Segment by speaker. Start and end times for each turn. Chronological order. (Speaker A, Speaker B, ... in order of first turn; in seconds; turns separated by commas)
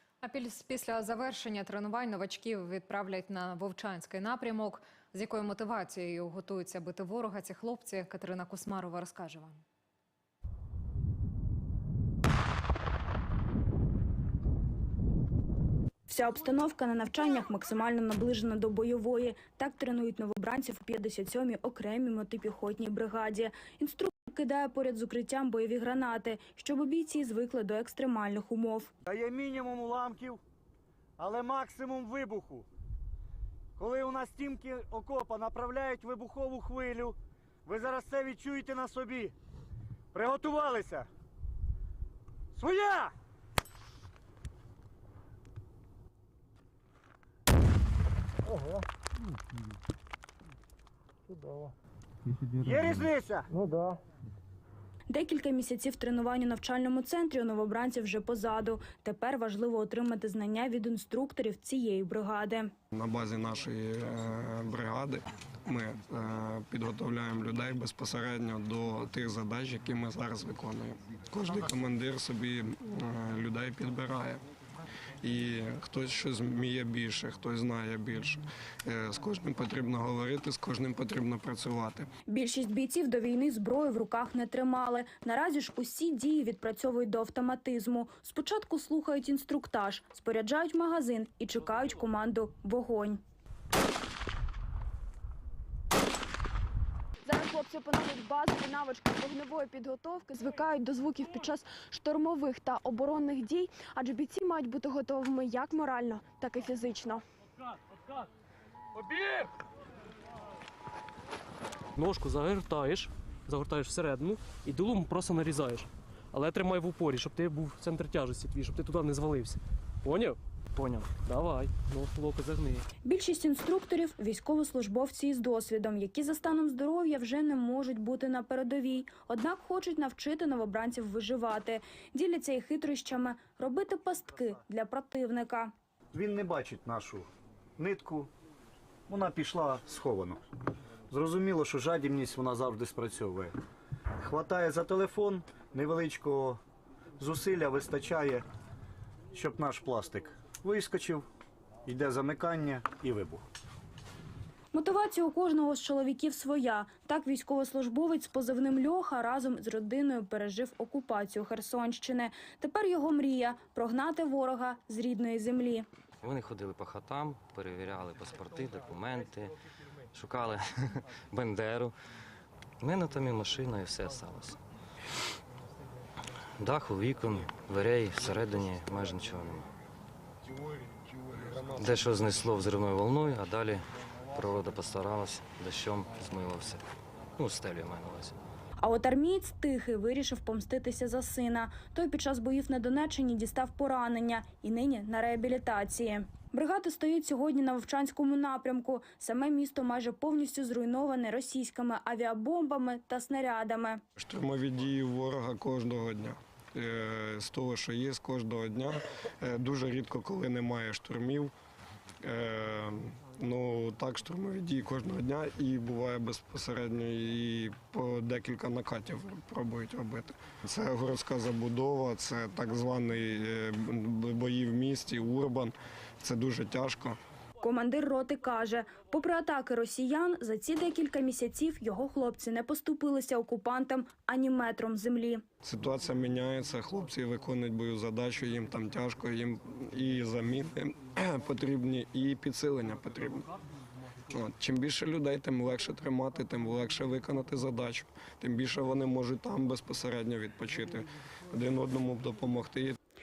Speaker A: 0.2-9.6, Speaker B: 16.1-28.9, Speaker C: 29.0-30.4, Speaker C: 31.2-32.7, Speaker C: 33.8-39.3, Speaker C: 40.1-41.1, Speaker C: 42.5-43.1, Speaker C: 52.5-53.4, Speaker B: 55.1-62.7, Speaker D: 62.9-74.4, Speaker D: 75.2-82.1, Speaker B: 82.3-93.2, Speaker E: 97.2-107.2, Speaker F: 109.0-109.5, Speaker F: 112.0-122.8, Speaker B: 123.0-135.7, Speaker C: 136.1-138.3, Speaker C: 139.1-140.4, Speaker C: 141.1-143.6, Speaker C: 144.2-146.6, Speaker C: 147.2-148.4, Speaker C: 149.3-151.3, Speaker C: 151.8-153.4, Speaker B: 154.7-165.9, Speaker G: 166.2-169.6, Speaker G: 170.1-171.9, Speaker G: 172.8-174.6, Speaker G: 176.6-179.7, Speaker D: 180.6-181.4, Speaker G: 181.5-186.8, Speaker G: 187.4-188.3, Speaker B: 188.8-204.0, Speaker D: 204.2-211.5, Speaker D: 212.2-227.2, Speaker B: 227.6-235.4, Speaker D: 235.6-243.5, Speaker D: 244.3-253.0